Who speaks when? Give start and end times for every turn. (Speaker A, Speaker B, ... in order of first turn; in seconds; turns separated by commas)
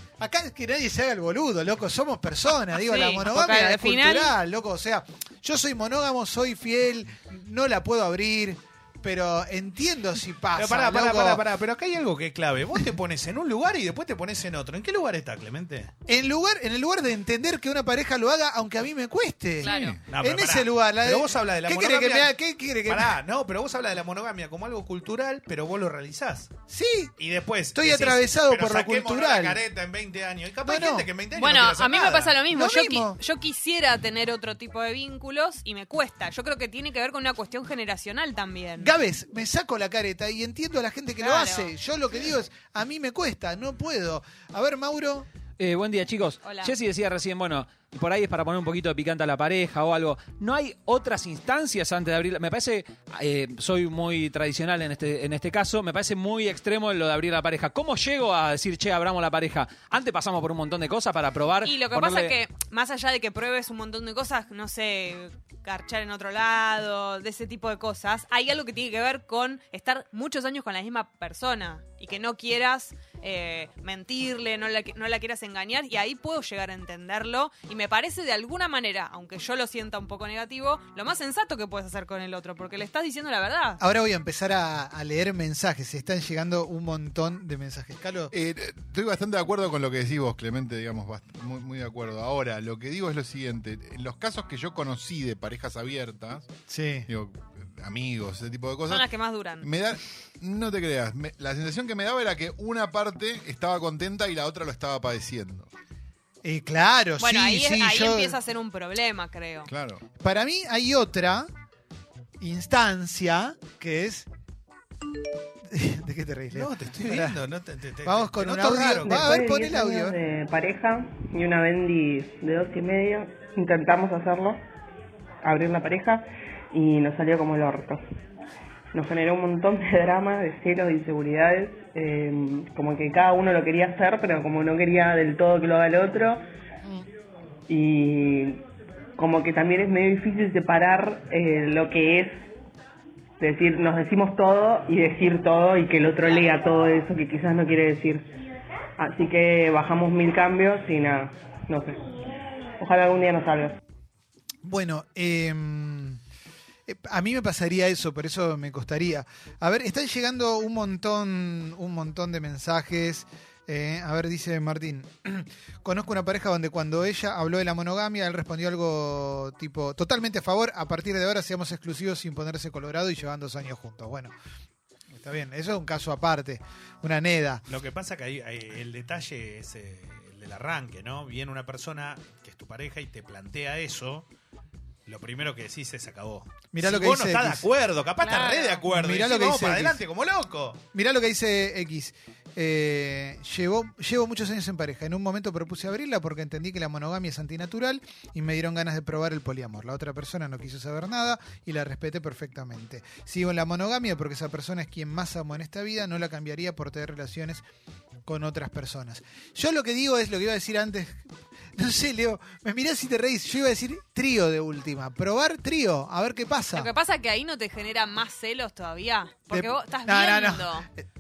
Speaker A: 0.2-11.4, Speaker B: 2.8-4.4, Speaker C: 10.6-15.9, Speaker A: 16.1-23.2, Speaker B: 19.6-20.0, Speaker D: 19.7-20.0, Speaker C: 20.1-22.3, Speaker C: 22.9-26.5, Speaker A: 26.7-27.1, Speaker C: 27.2-32.4, Speaker A: 27.7-29.6, Speaker A: 30.6-31.1, Speaker B: 31.4-38.9, Speaker A: 32.5-33.2, Speaker A: 38.8-45.3, Speaker B: 41.2-41.7, Speaker E: 45.6-62.4, Speaker B: 46.4-46.7, Speaker B: 61.6-83.8, Speaker A: 83.8-88.3, Speaker D: 88.3-96.5, Speaker A: 96.7-97.1, Speaker D: 97.1-99.1, Speaker B: 98.9-99.7, Speaker D: 99.6-105.7, Speaker A: 106.4-108.4, Speaker B: 107.2-109.7, Speaker D: 109.7-110.0, Speaker A: 110.2-111.5, Speaker A: 112.4-114.3, Speaker A: 115.7-117.4, Speaker C: 116.5-119.3, Speaker A: 118.0-120.2, Speaker F: 118.8-124.6, Speaker F: 125.4-128.0, Speaker F: 128.9-136.4, Speaker F: 137.7-138.6, Speaker F: 139.2-142.4, Speaker F: 143.4-148.3, Speaker F: 149.0-152.1, Speaker F: 152.8-153.8, Speaker A: 154.6-156.2, Speaker A: 156.9-174.3, Speaker A: 175.1-177.6, Speaker C: 177.7-184.3, Speaker C: 185.1-190.8, Speaker A: 186.7-187.7, Speaker B: 188.2-188.9, Speaker A: 188.9-190.0, Speaker A: 190.9-207.6, Speaker A: 208.3-211.2, Speaker A: 211.8-216.9, Speaker B: 216.7-220.9, Speaker A: 219.5-221.1